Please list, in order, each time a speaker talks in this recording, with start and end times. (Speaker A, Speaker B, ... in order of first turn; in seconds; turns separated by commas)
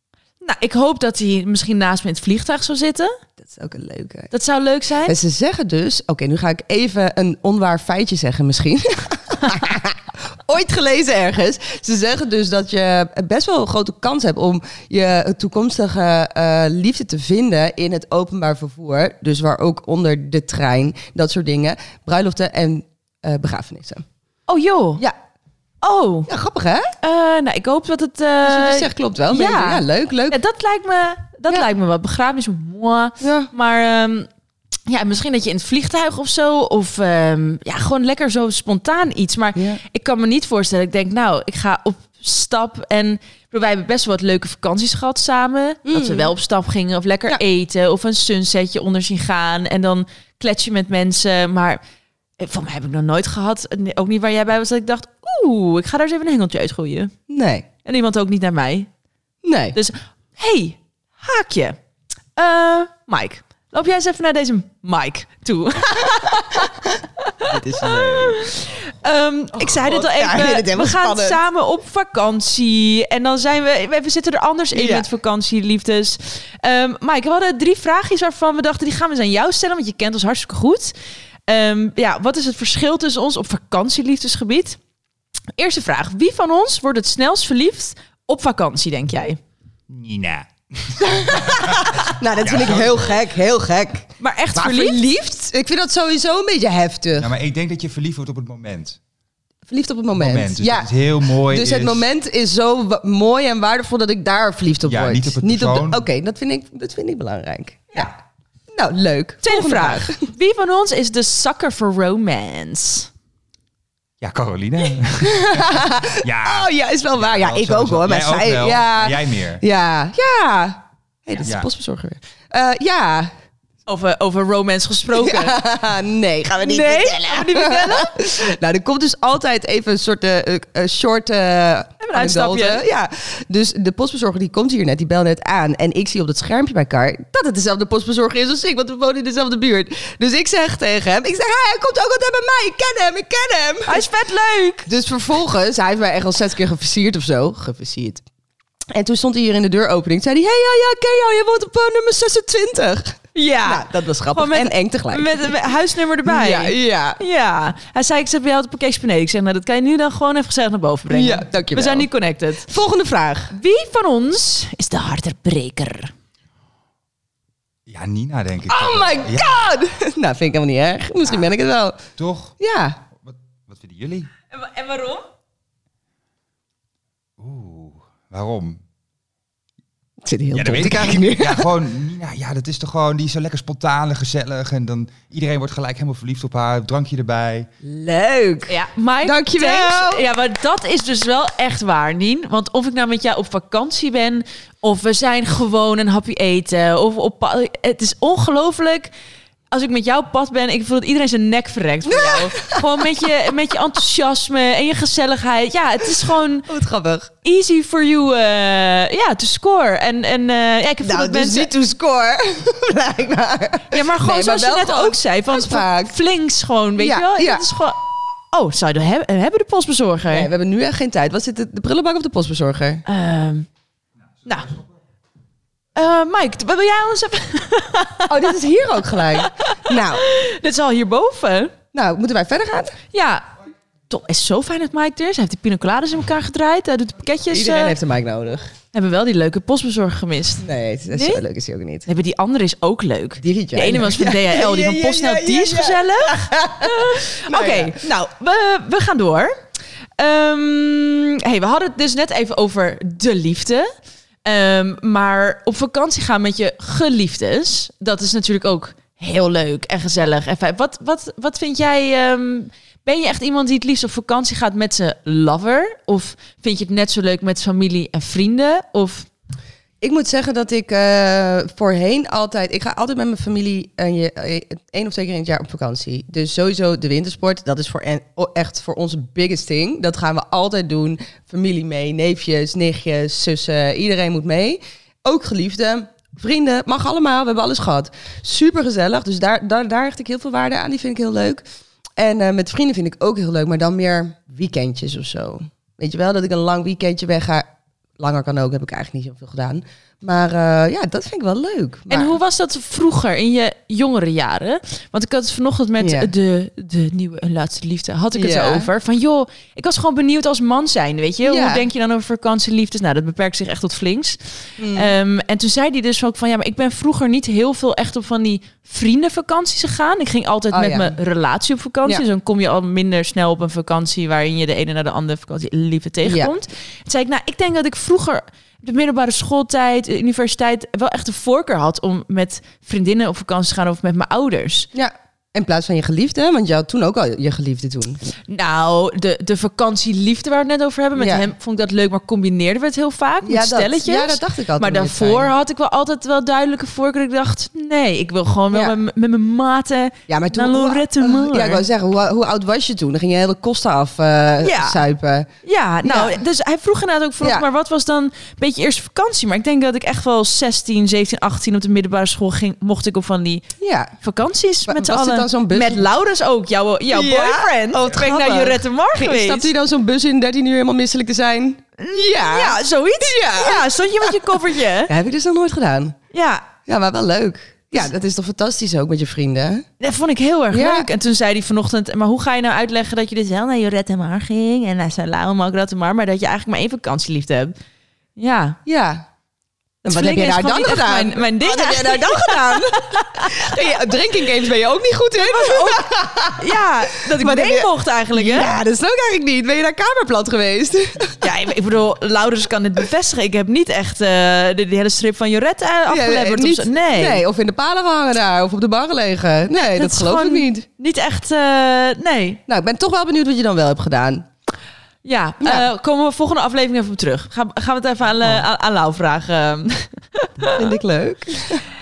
Speaker A: 0.4-3.2, Speaker B: 3.4-4.3, Speaker A: 4.3-5.2, Speaker B: 5.0-24.0, Speaker A: 24.5-25.0, Speaker A: 25.8-26.3, Speaker B: 26.3-26.9, Speaker A: 27.0-34.3, Speaker B: 28.4-30.4, Speaker B: 33.2-33.5, Speaker A: 34.9-51.8, Speaker B: 39.5-39.8, Speaker B: 45.8-46.3, Speaker A: 52.4-57.1, Speaker B: 57.3-57.6, Speaker A: 57.8-58.9, Speaker B: 59.4-59.8, Speaker A: 59.7-61.8, Speaker A: 62.4-80.9, Speaker B: 67.4-68.5, Speaker B: 69.6-71.4, Speaker B: 74.7-75.1, Speaker A: 81.5-84.8, Speaker A: 85.6-89.4, Speaker C: 89.9-93.2, Speaker B: 91.0-97.3, Speaker A: 94.2-95.1, Speaker C: 97.2-99.0, Speaker B: 99.7-108.1, Speaker C: 100.1-102.1, Speaker C: 104.8-106.0, Speaker B: 108.7-110.3, Speaker A: 109.4-113.1, Speaker C: 114.2-119.6, Speaker B: 115.2-123.3, Speaker A: 123.9-125.6, Speaker B: 125.1-144.0, Speaker A: 126.6-128.2, Speaker A: 132.0-132.8, Speaker A: 143.8-144.9, Speaker B: 144.9-148.2, Speaker B: 148.9-155.5, Speaker A: 153.3-162.7, Speaker B: 156.2-157.2, Speaker B: 161.1-162.1, Speaker B: 162.6-163.5, Speaker A: 163.5-166.1, Speaker C: 167.9-169.6, Speaker B: 168.7-172.0, Speaker C: 172.2-172.5, Speaker B: 172.6-173.0, Speaker C: 173.2-174.3, Speaker A: 174.5-175.2, Speaker C: 177.4-178.8, Speaker B: 180.2-181.7, Speaker C: 180.5-187.7, Speaker B: 187.8-190.2, Speaker A: 188.7-199.1, Speaker A: 199.7-206.7, Speaker B: 202.1-203.3, Speaker B: 206.7-207.3, Speaker A: 207.4-211.7, Speaker B: 211.0-216.1, Speaker A: 213.9-218.0, Speaker B: 217.0-217.7, Speaker A: 218.5-220.5, Speaker B: 220.3-223.0, Speaker A: 223.1-223.7, Speaker A: 224.4-224.7, Speaker A: 225.9-228.4, Speaker B: 228.3-230.2, Speaker A: 229.4-231.7, Speaker B: 231.9-233.0, Speaker A: 233.1-233.4, Speaker A: 234.1-237.9, Speaker B: 237.5-238.7, Speaker A: 238.9-241.4, Speaker B: 240.6-242.1, Speaker A: 242.1-249.5, Speaker B: 243.4-248.0, Speaker A: 250.2-253.9, Speaker A: 254.4-269.3, Speaker B: 270.0-291.6, Speaker B: 292.2-297.7, Speaker B: 298.2-302.4, Speaker A: 302.1-314.4, Speaker B: 306.0-306.3, Speaker B: 308.3-308.9, Speaker B: 311.4-311.9, Speaker B: 314.8-315.1, Speaker A: 314.9-334.9, Speaker B: 320.7-321.1, Speaker B: 326.2-326.5, Speaker B: 334.9-338.2, Speaker A: 338.5-351.8, Speaker B: 341.1-341.4, Speaker B: 343.4-345.5, Speaker B: 350.3-355.5, Speaker A: 354.6-355.0, Speaker A: 355.6-363.6, Speaker B: 356.0-356.4, Speaker B: 363.8-364.1, Speaker A: 364.2-369.7, Speaker B: 364.9-366.1, Speaker B: 367.1-374.6, Speaker A: 372.0-375.1, Speaker B: 375.1-376.1, Speaker A: 376.3-376.7, Speaker B: 376.8-379.9, Speaker A: 380.0-387.7, Speaker B: 380.7-381.1, Speaker A: 388.4-388.8, Speaker B: 388.9-389.2, Speaker A: 390.0-393.7, Speaker B: 390.0-396.8, Speaker A: 395.4-398.7, Speaker B: 397.3-401.4, Speaker A: 401.4-407.4, Speaker B: 406.1-410.8, Speaker A: 409.8-412.6, Speaker B: 412.7-414.4, Speaker A: 415.2-420.9, Speaker B: 415.6-415.9, Speaker B: 420.7-421.8